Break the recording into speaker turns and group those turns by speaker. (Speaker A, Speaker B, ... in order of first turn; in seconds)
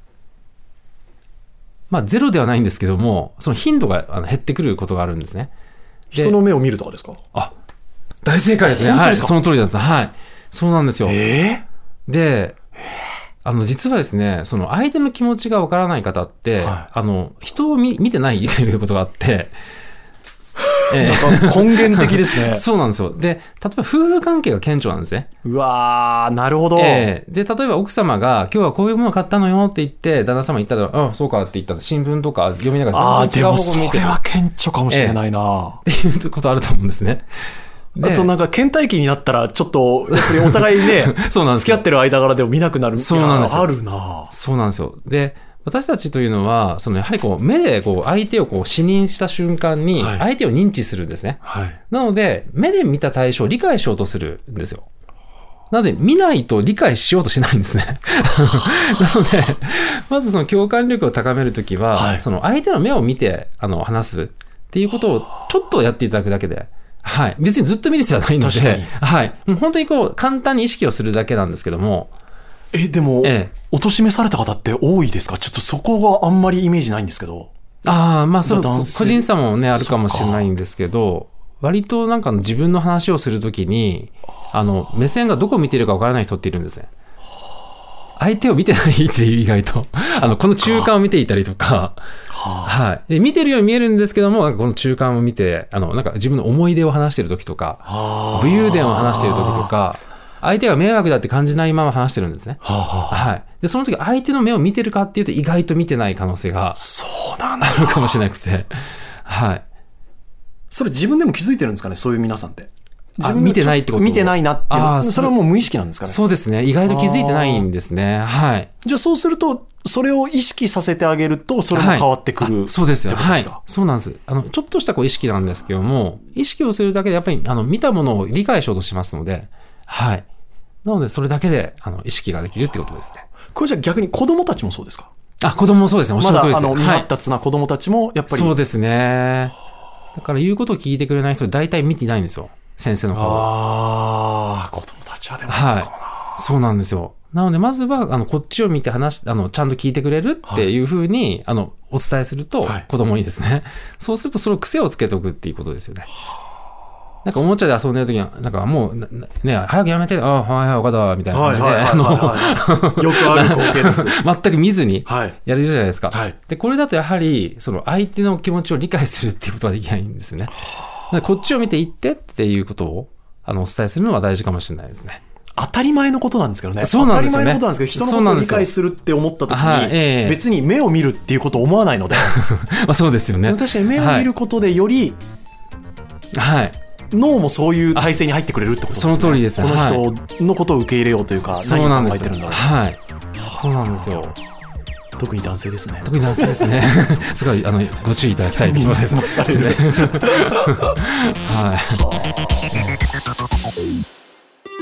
Speaker A: 1.9-5.5, 8.2-11.2, 12.1-12.6, 13.4-19.5, 20.9-25.3, 26.7-34.2, 34.9-35.2, 35.8-37.3, 37.9-38.3, 40.1-41.8, 43.0-43.8, 44.3-54.9, 55.7-72.1, 73.2-73.5, 77.8-86.9, 88.2-92.0, 92.6-106.8, 107.6-108.7, 109.2-109.6, 113.2-115.4, 116.0-118.7, 121.7-130.2, 130.8-133.3, 135.4-137.1, 138.3-139.5, 140.1-143.5, 145.5-156.1, 157.2-170.5, 171.1-175.2, 176.8-178.7, 179.5-180.4, 182.2-184.3, 186.3-186.8, 188.9-190.1, 191.5-194.4, 196.0-202.1
Speaker B: 6.1-7.2, 8.6-9.4, 11.0-11.6, 16.6-16.9, 20.9-22.6, 25.4-27.1, 32.9-35.8, 38.0-44.3, 50.0-50.2, 51.4-51.8, 61.9-62.2, 68.4-68.9, 72.7-77.5, 78.4-80.5, 90.1-90.9, 92.3-92.7, 97.9-99.7, 102.6-103.3, 106.8-108.2, 110.7-116.2, 116.8-117.7, 118.8-123.6, 133.5-135.1, 136.2-138.6, 143.1-146.4, 161.3-164.2, 165.1-165.4, 166.1-166.3, 175.6-182.4, 183.4-185.2, 187.1-192.6, 195.2-196.7, 198.6-200.9